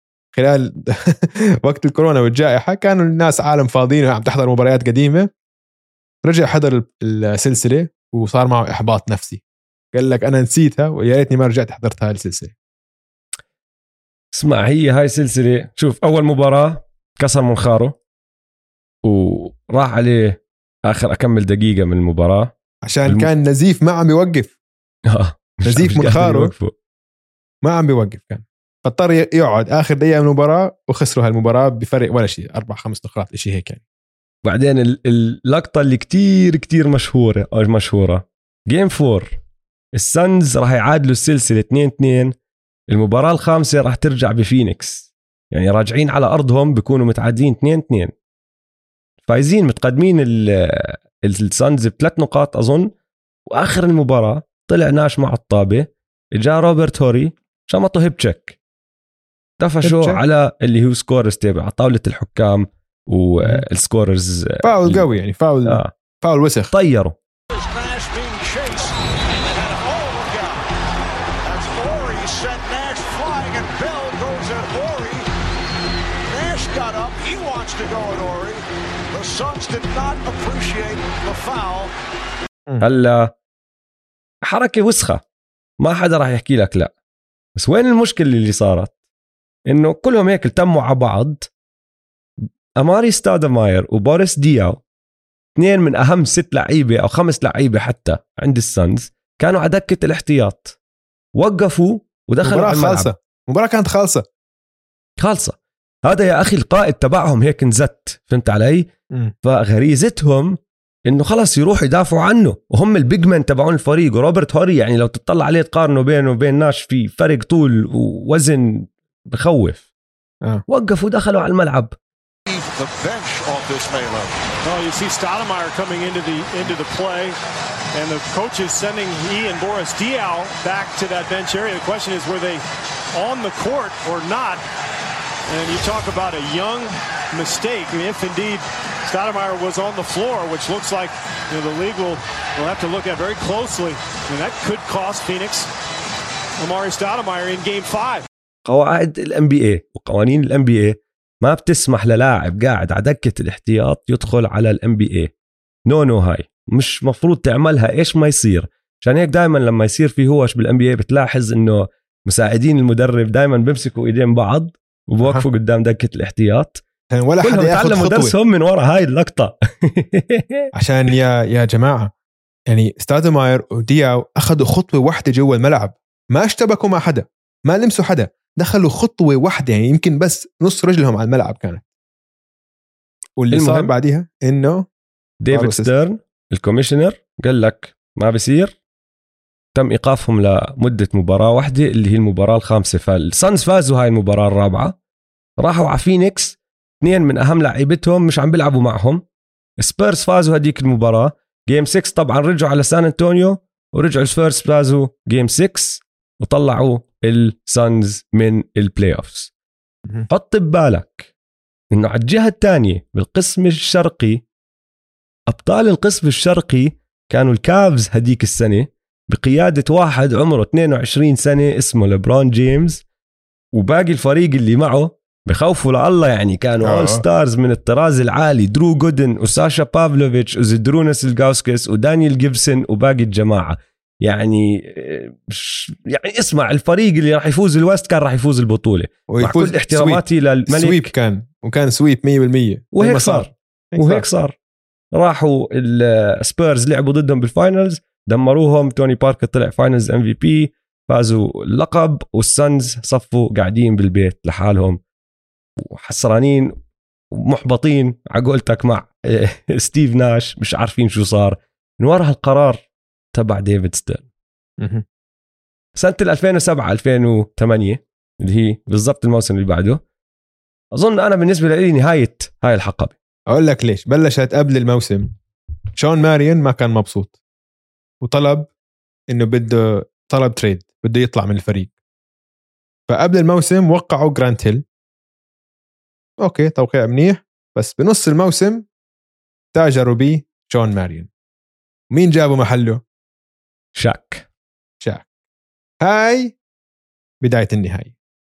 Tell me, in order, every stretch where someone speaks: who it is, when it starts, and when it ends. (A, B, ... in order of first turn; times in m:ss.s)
0:00.3-0:05.3 A
0:06.2-0:09.4 A
0:09.9-0:12.5 A
0:14.3-0:18.0 B
0:19.0-0:22.5 B
0:22.8-0:24.5 A
0:25.1-0:26.7 B
0:25.7-0:26.5 A
0:27.6-0:33.8 A
0:34.4-0:39.3 B
0:40.0-0:42.3 B
0:42.9-0:48.1 B
0:49.3-0:52.9 B
0:53.5-0:58.6 B
0:59.6-1:05.0 B
0:59.8-1:00.2 A
1:04.6-1:06.7 A
1:05.7-1:05.9 B
1:06.7-1:07.1 B
1:07.5-1:10.7 C
1:11.4-1:15.3 C
1:16.3-1:21.9 C
1:22.8-1:23.3 B
1:24.4-1:25.2 B
1:25.8-1:26.9 B
1:27.6-1:28.9 B
1:29.7-1:31.5 B
1:32.8-1:34.8 B
1:35.6-1:40.8 B
1:41.4-1:43.1 B
1:42.4-1:44.2 A
1:45.2-1:48.9 B
1:49.4-1:50.6 B
1:51.1-1:59.8 B
2:00.7-2:02.0 B
2:02.5-2:04.4 C
2:04.6-2:07.4 D
2:07.9-2:14.6 D
2:15.5-2:25.7 D
2:26.6-2:28.2 D
2:28.7-2:35.3 B
2:35.9-2:46.8 B
2:47.1-2:48.3 A
2:47.4-2:50.7 B
2:50.7-2:52.1 A
2:52.7-3:01.9 A
3:03.4-3:04.9 A
3:03.5-3:03.9 B
3:05.4-3:08.8 B
3:05.5-3:05.9 A
3:09.8-3:15.0 B
3:15.6-3:19.2 B
3:19.8-3:29.5 B
3:30.3-3:31.3 B
3:31.9-3:34.4 B
3:35.5-3:43.0 B
3:43.7-4:01.1 B
3:46.8-3:47.2 A
3:59.3-4:04.2 A
4:03.0-4:04.6 B
4:05.1-4:15.0 B
4:15.8-4:16.7 B
4:17.3-4:24.3 B
4:24.8-4:25.0 A
4:26.0-4:30.0 B
4:30.9-4:33.1 B
4:33.5-4:35.3 A
4:36.0-4:37.4 A
4:38.2-4:38.7 A
4:39.3-4:41.9 A
4:43.1-4:44.8 A
4:46.4-4:48.8 A
4:49.7-4:51.3 A
4:52.1-4:53.0 A
4:54.0-4:54.5 B
4:55.0-4:55.3 A
4:56.0-4:56.6 A
4:57.4-4:58.1 A